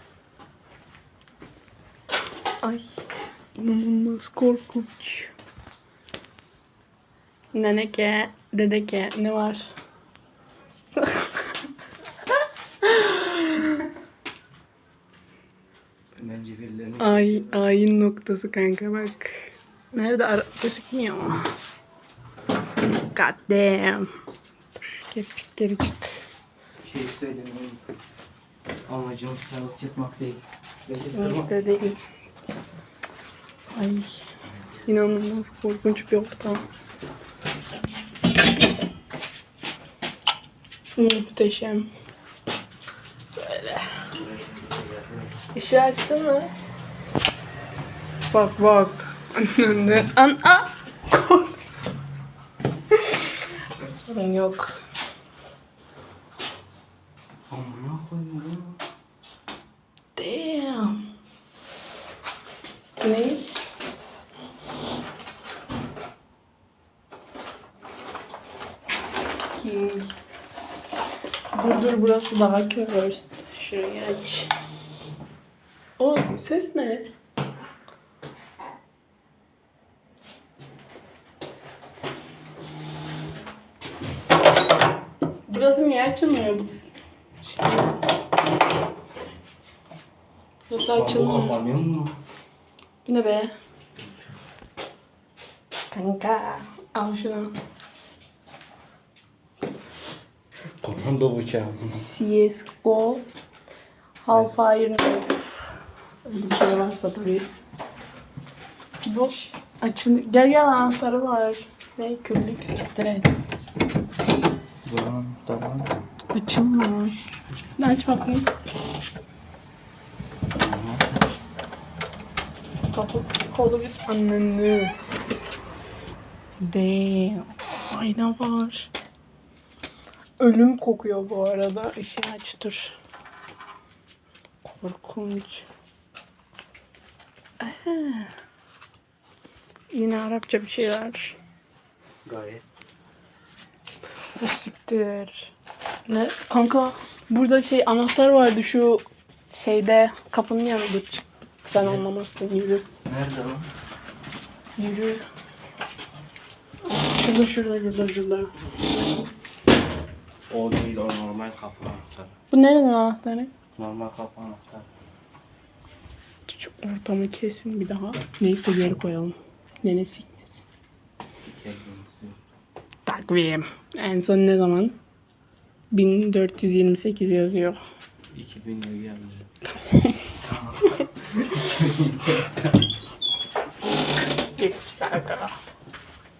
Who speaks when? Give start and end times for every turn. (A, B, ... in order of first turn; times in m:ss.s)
0:02.6-0:05.3 A
0:07.5-0:09.7 A
0:11.0-0:11.6 A
0:12.8-0:13.9 A
0:16.2-0:17.6 B
0:17.0-0:21.5 A
0:23.0-0:24.1 A
0:24.8-0:26.1 A
0:26.8-0:28.0 B
0:28.9-0:31.5 B
0:30.9-0:32.1 A
0:33.7-0:34.3 A
0:34.8-0:36.6 A
0:41.0-0:41.9 A
0:43.4-0:44.0 A
0:44.1-0:45.3 B
0:45.5-0:46.5 A
0:48.3-0:51.6 A
0:52.9-0:54.8 A
0:57.5-0:58.8 B
1:00.1-1:01.0 A
1:03.0-1:03.6 A
1:09.5-1:10.2 A
1:11.5-1:14.5 A
1:16.0-1:17.1 A
1:25.5-1:26.7 A
1:27.5-1:28.0 A
1:30.7-1:31.6 A
1:31.0-1:32.2 B
1:33.0-1:33.5 A
1:35.9-1:37.5 A
1:40.8-1:42.0 B
1:41.9-1:43.3 A
1:44.2-1:45.5 A
1:46.2-1:47.5 A
1:49.0-1:53.3 A
1:54.8-1:55.9 B
1:56.3-1:58.5 A
2:00.5-2:01.0 B
2:02.9-2:04.9 A
2:06.6-2:08.9 A
2:10.4-2:13.0 A
2:14.6-2:15.6 A
2:17.6-2:18.3 A
2:19.9-2:21.4 A
2:22.2-2:22.6 B
2:24.4-2:25.5 A
2:26.1-2:32.9 A
2:31.8-2:32.0 B
2:33.0-2:33.7 B
2:34.8-2:35.2 A
2:36.9-2:38.5 A
2:40.5-2:42.3 B
2:42.5-2:43.5 A
2:43.7-2:44.9 B
2:46.5-2:50.6 A
2:51.4-2:52.4 B
2:53.1-2:55.0 A
2:55.9-2:57.8 A
2:58.3-2:59.5 B
2:59.9-3:00.3 A
3:00.4-3:02.8 B
3:04.5-3:05.6 A